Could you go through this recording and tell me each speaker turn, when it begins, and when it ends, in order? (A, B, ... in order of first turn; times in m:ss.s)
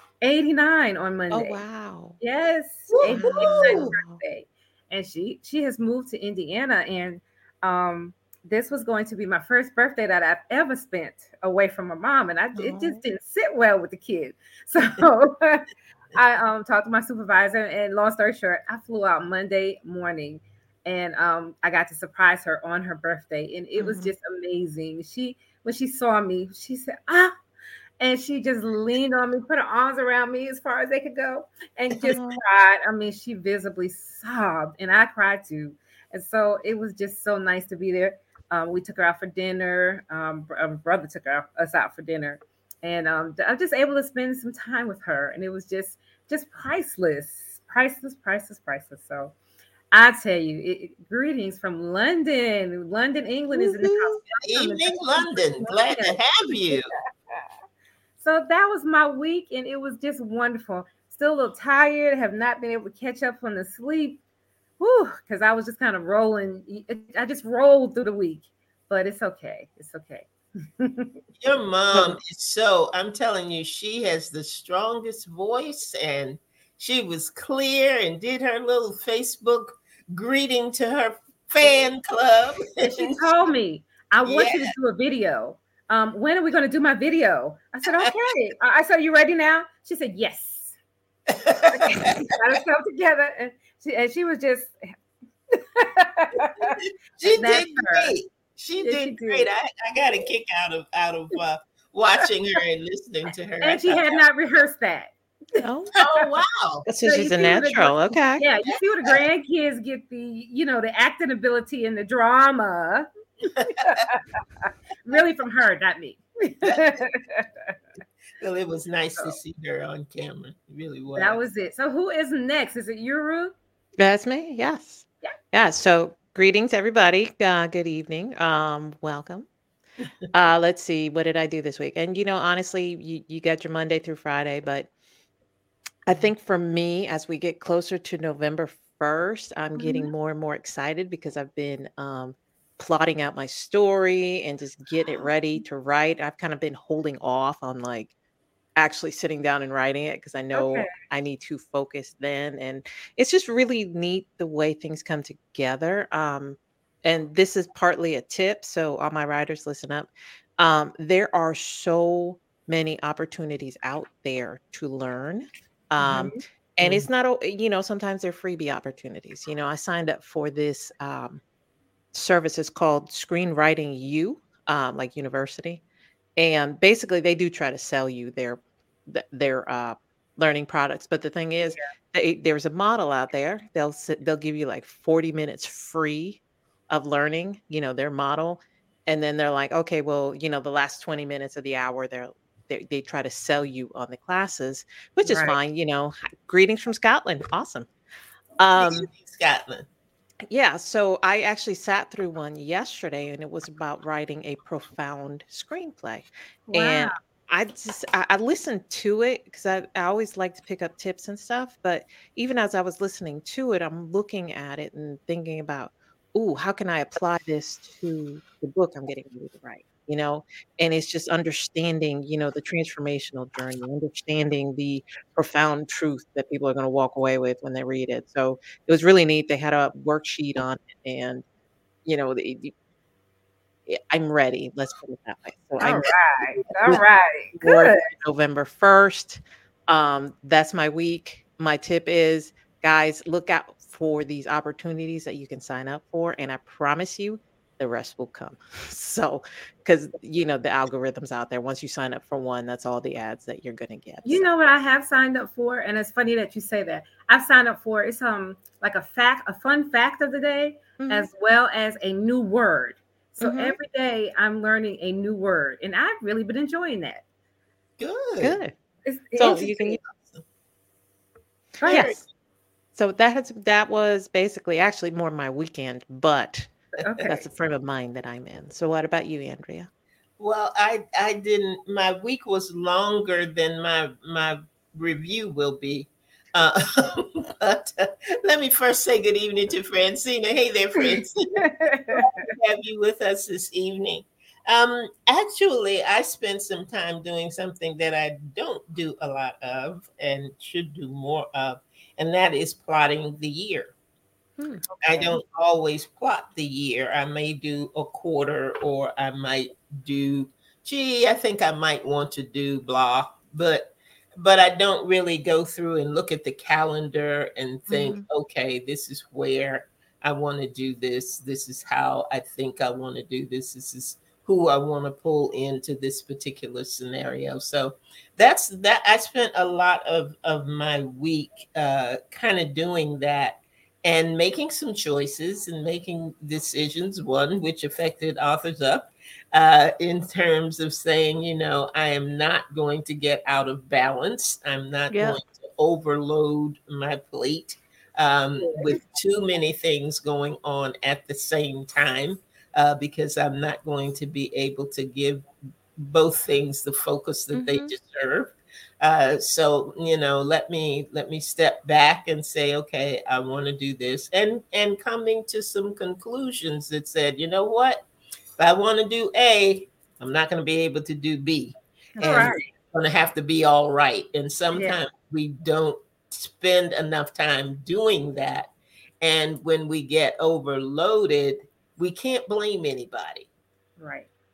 0:00.2-0:01.6 A
0:01.3-0:02.2 B
0:02.2-0:27.3 A
0:02.9-0:04.0 C
0:03.1-0:04.2 B
0:12.6-0:13.0 B
0:23.8-0:24.1 B
0:28.0-0:49.3 A
0:32.1-0:32.4 B
0:49.9-0:57.4 A
0:53.6-0:56.9 C
0:58.2-1:04.2 A
1:04.8-1:11.2 A
1:11.4-1:23.3 C
1:22.8-1:30.7 A
1:24.2-1:24.8 C
1:27.9-1:28.2 C
1:31.3-1:32.3 C
1:31.7-1:34.8 A
1:35.5-1:36.8 A
1:36.6-1:44.2 C
1:37.3-1:38.1 A
1:38.8-1:39.5 A
1:43.6-1:45.6 A
1:45.6-1:45.9 B
1:46.0-1:46.9 C
1:46.9-1:48.4 B
1:47.0-1:53.1 A
1:48.7-1:49.2 C
1:53.5-1:54.0 C
1:53.7-1:54.2 A
1:55.0-1:57.8 A
1:58.4-2:01.4 C
2:01.2-2:03.5 A
2:04.0-2:09.5 B
2:10.3-2:14.9 B
2:16.1-2:28.1 B
2:19.8-2:20.1 A
2:28.8-2:51.4 B
2:30.5-2:30.9 A
2:46.0-2:46.4 A
2:52.1-2:55.8 B
2:56.4-3:17.9 B
3:15.2-3:15.6 A
3:18.6-3:19.1 B
3:18.8-3:19.9 C
3:20.4-3:51.4 B
3:26.7-3:27.2 A
3:52.1-3:52.7 B
3:53.9-3:57.0 B
3:55.8-3:58.0 A
3:57.6-4:14.5 B
4:14.2-4:27.2 A
4:21.0-4:21.3 B
4:23.4-4:23.8 B
4:28.0-4:28.6 C
4:28.4-4:28.7 B
4:29.0-4:30.0 A
4:29.4-4:30.0 B
4:30.0-4:30.4 C
4:31.8-4:32.3 C
4:31.8-4:32.2 A
4:33.0-4:36.7 B
4:37.0-4:37.4 A
4:37.2-4:39.9 B
4:40.4-5:03.9 C
4:51.6-4:52.5 A
5:04.6-5:04.8 B
5:05.0-6:08.0 C
5:05.1-5:05.4 A
5:17.9-5:18.2 B
5:45.1-5:45.4 B
5:48.6-5:49.0 A
5:57.5-5:58.0 B
6:08.6-6:23.5 C
6:12.2-6:12.7 A
6:24.0-6:24.3 A